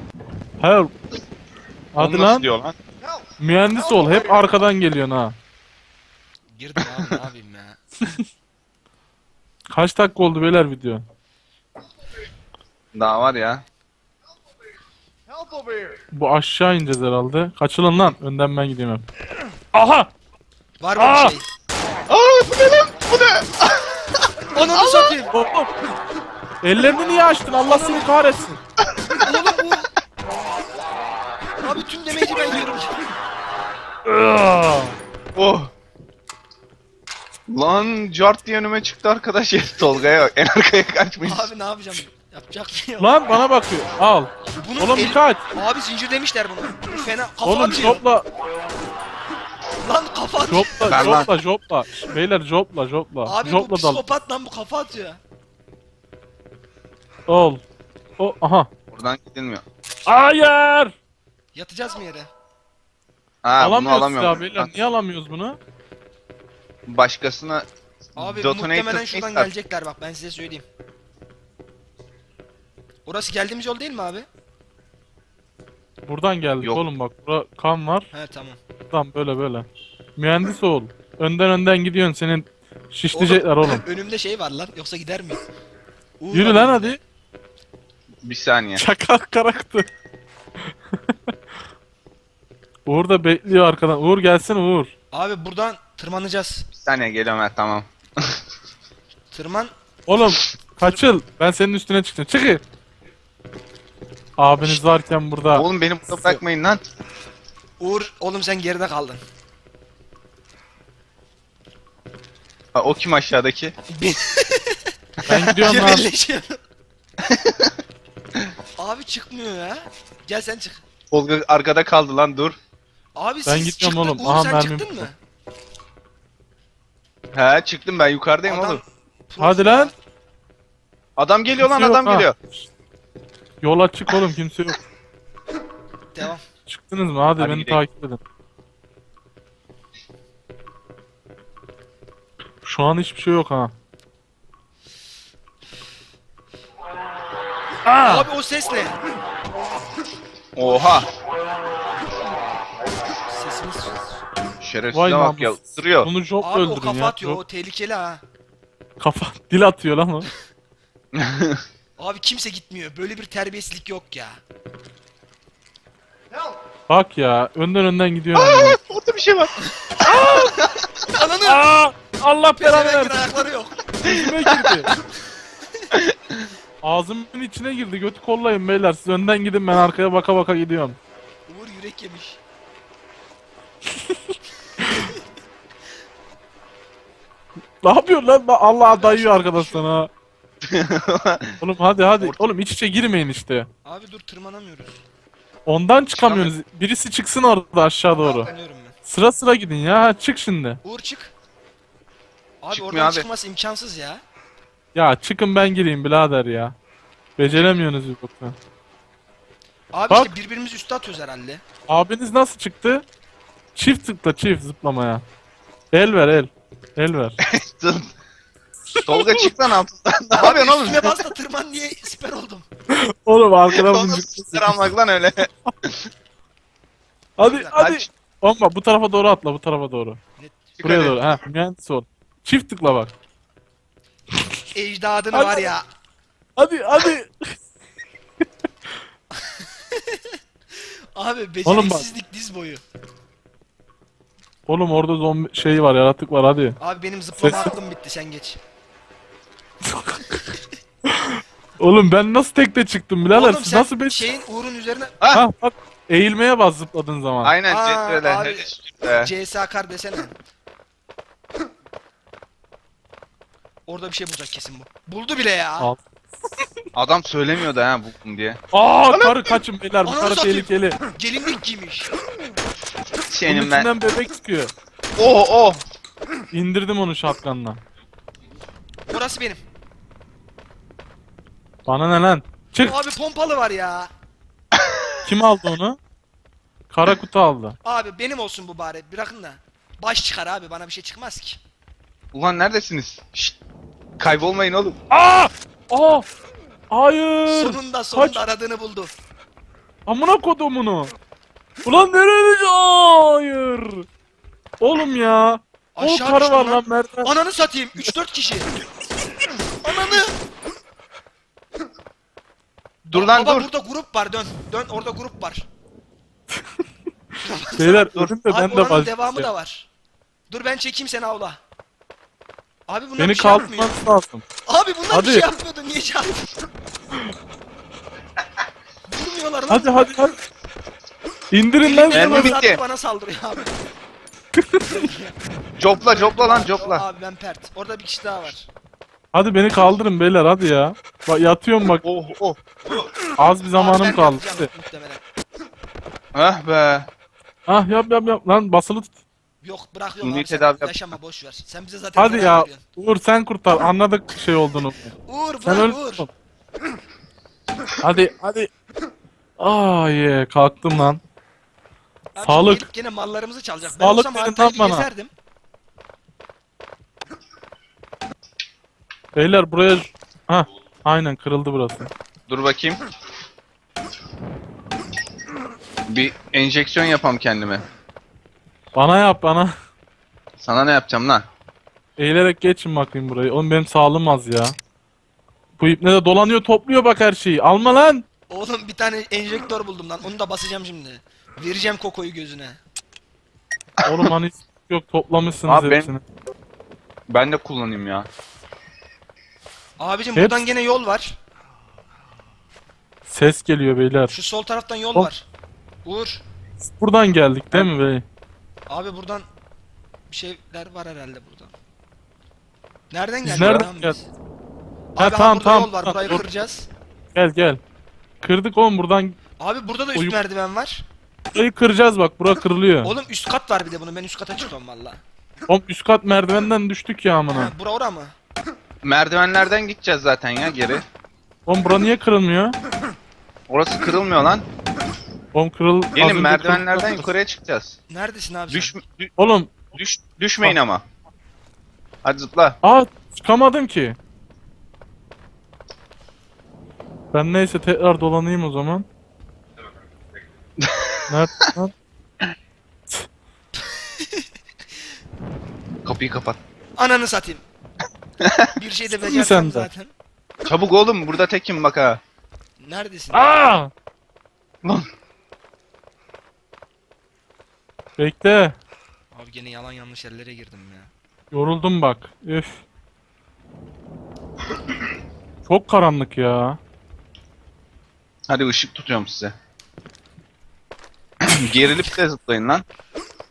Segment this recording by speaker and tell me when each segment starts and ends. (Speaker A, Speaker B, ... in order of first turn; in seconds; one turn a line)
Speaker A: 0.6-0.9
Speaker A: 1.9-2.5
Speaker B: 2.0-2.8
Speaker A: 3.4-5.4
Speaker C: 6.5-7.8
Speaker A: 9.7-11.0
Speaker B: 12.9-13.6
Speaker A: 16.1-19.1
Speaker A: 19.7-20.1
Speaker C: 20.8-21.5
Speaker A: 21.0-21.4
Speaker B: 22.1-23.7
Speaker C: 24.5-25.3
Speaker B: 24.8-25.1
Speaker A: 25.3-25.7
Speaker A: 26.6-28.6
Speaker C: 27.6-28.1
Speaker C: 29.2-29.9
Speaker C: 31.6-33.0
Speaker A: 34.1-35.0
Speaker B: 35.4-35.7
Speaker B: 37.5-41.5
Speaker C: 41.3-43.2
Speaker A: 43.0-45.4
Speaker C: 44.6-48.0
Speaker A: 47.4-48.2
Speaker C: 49.8-51.2
Speaker A: 50.5-54.0
Speaker B: 50.9-51.3
Speaker C: 53.2-55.2
Speaker A: 57.3-57.6
Speaker A: 58.2-58.7
Speaker B: 58.9-59.6
Speaker A: 60.1-61.0
Speaker C: 61.5-62.3
Speaker B: 63.4-64.7
Speaker A: 63.6-65.6
Speaker B: 66.9-69.5
Speaker C: 68.2-70.7
Speaker C: 73.1-74.3
Speaker A: 76.0-78.1
Speaker C: 78.1-78.6
Speaker A: 78.9-83.8
Speaker C: 83.1-85.4
Speaker C: 86.2-87.0
Speaker A: 86.3-87.0
Speaker B: 88.2-88.8
Speaker A: 88.8-89.9
Speaker A: 92.9-94.9
Speaker C: 95.1-96.7
Speaker B: 96.8-97.9
Speaker C: 99.3-99.7
Speaker A: 100.1-102.6
Speaker A: 104.4-106.4
Speaker B: 105.5-106.8
Speaker C: 107.8-109.2
Speaker B: 112.8-113.7
Speaker C: 114.0-116.6
Speaker A: 115.3-116.1
Speaker C: 118.8-120.8
Speaker B: 121.1-122.6
Speaker C: 123.2-125.1
Speaker A: 123.5-125.1
Speaker B: 127.3-128.8
Speaker C: 128.5-129.9
Speaker A: 129.4-129.9
Speaker B: 131.2-132.4
Speaker A: 131.6-132.4
Speaker A: 133.6-134.8
Speaker C: 136.2-136.4
Speaker A: 136.7-138.2
Speaker B: 137.4-137.8
Speaker A: 142.6-143.7
Speaker A: 147.9-148.3
Speaker C: 148.0-149.0
Speaker B: 150.6-151.1
Speaker C: 150.6-151.1
Speaker C: 152.2-152.6
Speaker C: 153.3-154.2
Speaker B: 154.6-156.1
Speaker A: 154.9-157.4
Speaker C: 156.4-158.2
Speaker A: 159.0-160.3
Speaker B: 161.1-161.6
Speaker C: 162.0-164.4
Speaker A: 166.9-168.8
Speaker B: 168.3-169.5
Speaker A: 170.1-170.5
Speaker C: 170.1-171.7
Speaker A: 171.4-173.2
Speaker C: 172.6-173.9
Speaker A: 174.0-174.9
Speaker B: 176.0-176.4
Speaker A: 176.8-181.0
Speaker C: 181.5-182.4
Speaker C: 184.9-185.2
Speaker A: 187.8-190.1
Speaker C: 188.8-189.9
Speaker B: 190.7-191.6
Speaker A: 191.6-193.7
Speaker C: 193.8-195.0
Speaker A: 195.7-198.5
Speaker B: 196.2-196.5
Speaker C: 198.2-199.0
Speaker A: 199.1-200.8
Speaker C: 200.8-201.3
Speaker C: 202.6-204.2
Speaker B: 202.7-203.3
Speaker A: 204.9-206.8
Speaker A: 207.4-208.6
Speaker C: 209.9-211.6
Speaker A: 211.9-213.1
Speaker A: 213.7-215.2
Speaker A: 215.9-217.4
Speaker B: 217.4-218.1
Speaker A: 218.9-219.4
Speaker B: 219.1-221.2
Speaker C: 220.3-222.7
Speaker A: 222.9-224.9
Speaker B: 223.7-226.1
Speaker A: 227.4-230.2
Speaker C: 227.4-228.1
Speaker C: 230.4-230.7
Speaker B: 230.8-231.2
Speaker A: 230.8-233.1
Speaker C: 234.7-235.8
Speaker A: 235.3-235.7
Speaker A: 236.6-237.6
Speaker C: 239.6-240.4
Speaker C: 241.2-242.8
Speaker A: 241.7-242.1
Speaker A: 244.7-246.8
Speaker C: 246.8-248.6
Speaker A: 247.4-247.7
Speaker C: 250.3-250.6
Speaker A: 251.1-254.3
Speaker C: 253.3-255.2
Speaker A: 255.3-257.6
Speaker B: 257.4-259.3
Speaker C: 257.7-260.3
Speaker C: 263.9-265.9
Speaker A: 265.8-266.1
Speaker B: 266.9-269.5
Speaker A: 268.7-271.0
Speaker C: 270.1-272.1
Speaker B: 273.3-273.9
Speaker A: 273.5-274.7
Speaker B: 275.2-275.8
Speaker A: 276.5-277.8
Speaker C: 279.1-279.6
Speaker A: 281.9-282.9
Speaker C: 282.8-284.1
Speaker A: 285.2-286.0
Speaker A: 286.9-287.8
Speaker C: 287.8-291.6
Speaker B: 292.3-293.6
Speaker B: 294.2-295.0
Speaker A: 295.1-296.2
Speaker A: 296.9-298.4
Speaker C: 297.5-299.1
Speaker A: 300.1-301.1
Speaker A: 301.9-304.1
Speaker A: 304.8-307.3
Speaker C: 306.0-308.7
Speaker C: 309.8-310.3
Speaker B: 313.1-313.7
Speaker C: 313.1-315.6
Speaker C: 317.4-319.9
Speaker A: 317.8-319.5
Speaker C: 320.5-321.6
Speaker C: 322.9-324.0
Speaker A: 323.2-324.5
Speaker C: 324.7-326.6
Speaker A: 325.1-325.5
Speaker C: 329.1-330.1
Speaker A: 329.7-330.4
Speaker A: 331.5-332.6
Speaker C: 331.8-333.8
Speaker B: 332.1-332.8
Speaker A: 334.6-334.8
Speaker C: 334.9-335.4
Speaker B: 335.8-337.0
Speaker C: 336.1-338.7
Speaker A: 339.3-342.0
Speaker B: 342.0-342.6
Speaker A: 343.4-344.7
Speaker C: 343.7-345.2
Speaker B: 346.4-347.1
Speaker A: 347.7-349.2
Speaker C: 349.6-352.8
Speaker B: 350.2-350.9
Speaker A: 352.2-355.1
Speaker C: 355.3-356.3
Speaker A: 355.6-356.3
Speaker A: 358.0-358.7
Speaker A: 359.6-361.2
Speaker C: 362.4-365.3
Speaker A: 362.4-362.9
Speaker A: 363.9-365.1
Speaker A: 369.4-372.1
Speaker B: 372.5-373.0
Speaker B: 376.1-377.9
Speaker A: 378.9-379.7
Speaker B: 380.6-381.4
Speaker A: 382.2-384.8
Speaker A: 385.8-388.2
Speaker C: 388.5-392.8
Speaker A: 394.0-396.2
Speaker B: 395.7-396.1
Speaker B: 397.3-398.3
Speaker C: 400.0-401.4
Speaker A: 400.4-400.6
Speaker A: 403.3-404.3
Speaker C: 404.3-405.4
Speaker C: 406.1-406.4
Speaker A: 406.8-408.2
Speaker C: 408.9-409.4
Speaker C: 410.3-411.7
Speaker C: 413.1-414.3
Speaker A: 413.4-414.1
Speaker B: 413.5-413.9
Speaker C: 415.1-416.9
Speaker A: 415.2-416.4
Speaker A: 417.3-417.8
Speaker A: 418.4-419.4
Speaker C: 419.6-421.1
Speaker A: 421.5-423.1
Speaker C: 423.0-425.2
Speaker A: 425.7-427.7
Speaker C: 427.5-428.3
Speaker B: 429.0-431.1
Speaker A: 431.7-432.8
Speaker B: 433.7-434.7
Speaker A: 435.5-437.3
Speaker B: 436.1-438.0
Speaker C: 438.1-438.9
Speaker B: 438.7-439.3
Speaker A: 439.4-439.7
Speaker B: 439.9-441.0
Speaker B: 442.2-442.8
Speaker A: 442.8-444.2
Speaker A: 447.3-449.1
Speaker B: 450.8-451.1
Speaker A: 451.3-451.9
Speaker C: 454.0-454.4
Speaker B: 456.1-456.6
Speaker C: 457.0-457.6
Speaker C: 458.8-460.1
Speaker A: 459.1-459.9
Speaker B: 460.7-462.2
Speaker C: 462.8-463.6
Speaker A: 463.3-463.9
Speaker A: 468.2-468.8
Speaker C: 469.3-471.1
Speaker A: 471.5-472.8
Speaker A: 475.7-476.8
Speaker B: 478.5-479.5
Speaker B: 481.5-482.8